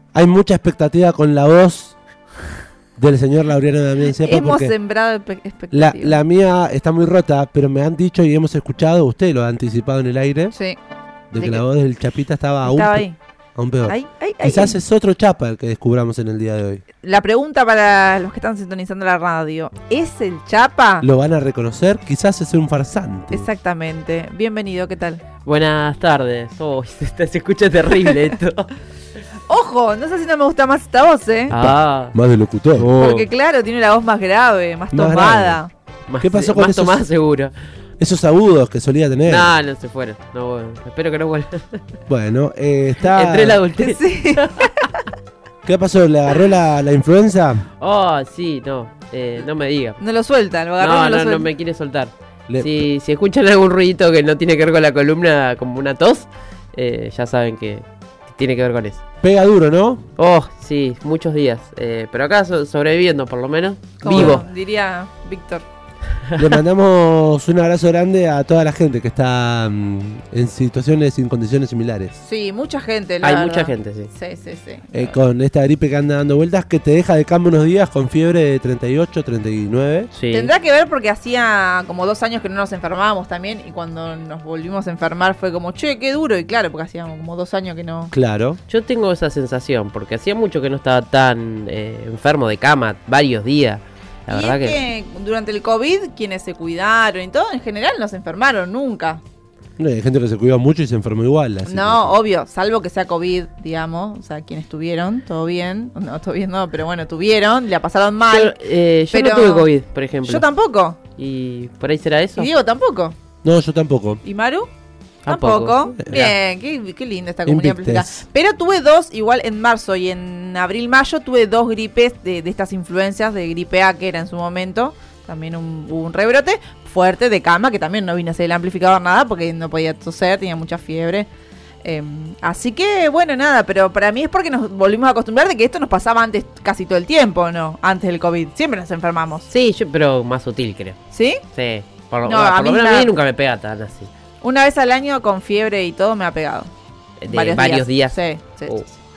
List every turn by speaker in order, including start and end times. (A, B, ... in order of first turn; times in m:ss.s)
0:00.1-0:01.9 A
0:03.0-0:04.7 A
0:04.1-0:06.2 B
0:05.7-0:10.5 A
0:10.5-0:10.8 B
0:11.3-0:16.8 A
0:11.3-0:11.6 B
0:12.6-0:13.2 B
0:13.8-0:14.8 B
0:17.0-0:21.0 B
0:21.0-0:23.5 A
0:23.3-0:25.2 B
0:25.4-0:28.7 C
0:29.5-0:31.5 B
0:31.5-0:32.1 C
0:31.5-0:32.9 A
0:32.8-0:33.3 C
0:33.0-0:35.7 B
0:34.9-0:35.6 A
0:36.1-0:37.5 C
0:36.2-0:37.0 A
0:38.0-0:39.5 A
0:39.2-0:41.8 C
0:42.1-0:43.6 A
0:43.0-0:44.7 C
0:43.8-0:45.0 B
0:45.6-0:47.7 A
0:47.8-0:50.0 C
0:50.0-0:51.5 B
0:50.8-0:59.0 C
0:52.5-0:52.8 A
0:59.2-1:00.0 A
1:00.2-1:04.4 C
1:04.0-1:05.6 B
1:04.0-1:04.4 A
1:06.4-1:12.1 A
1:12.2-1:15.2 B
1:13.2-1:14.1 C
1:14.9-1:20.1 A
1:20.1-1:20.5 C
1:20.3-1:28.1 B
1:28.1-1:28.6 A
1:28.7-1:34.8 C
1:34.3-1:39.2 B
1:39.8-1:42.1 A
1:41.6-1:48.6 B
1:48.3-1:50.4 C
1:49.1-1:49.7 B
1:50.2-1:51.0 B
1:51.2-1:52.5 C
1:52.4-1:53.1 B
1:53.4-1:54.2 A
1:54.2-1:54.7 B
1:55.2-1:55.9 C
1:55.3-2:11.3 B
1:56.0-1:56.3 A
1:57.4-1:58.2 A
2:11.8-2:19.5 B
2:19.5-2:21.0 C
2:21.1-2:21.4 B
2:21.5-2:24.1 C
2:22.2-2:23.1 B
2:24.4-2:26.7 B
2:27.2-2:28.8 C
2:27.3-2:29.0 B